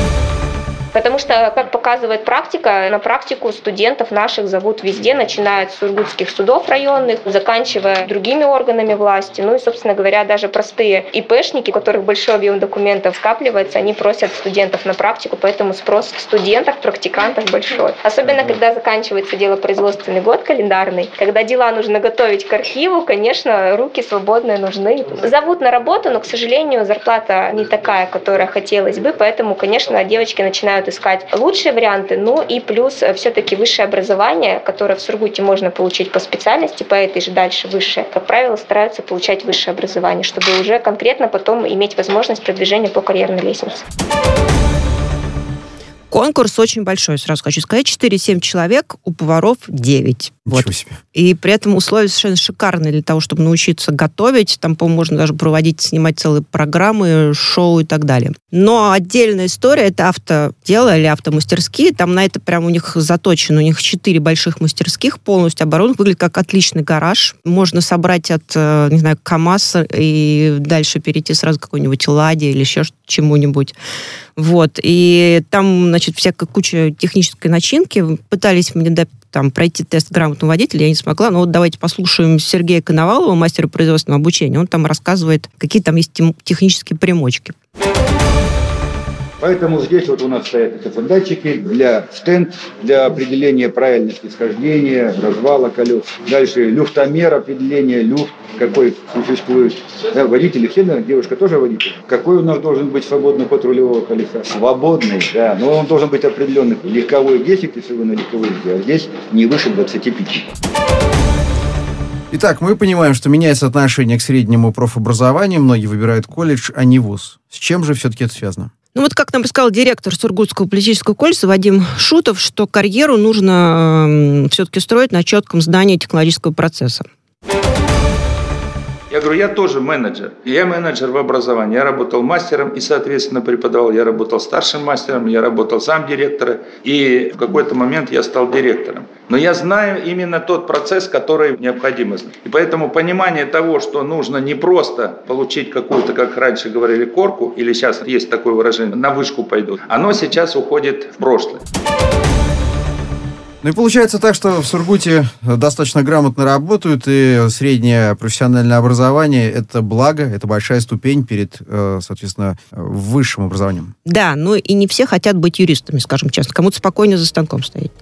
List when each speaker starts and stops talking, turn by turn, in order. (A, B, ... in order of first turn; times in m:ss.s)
0:00.9-0:43.8 A
0:46.1-1:13.8 B
0:50.5-0:51.0 C
1:14.4-1:27.6 B
1:29.4-1:50.4 D
1:52.3-1:58.7 C
1:58.9-2:07.0 B
2:09.1-2:31.6 E
2:33.6-2:43.9 C
2:44.0-2:47.9 B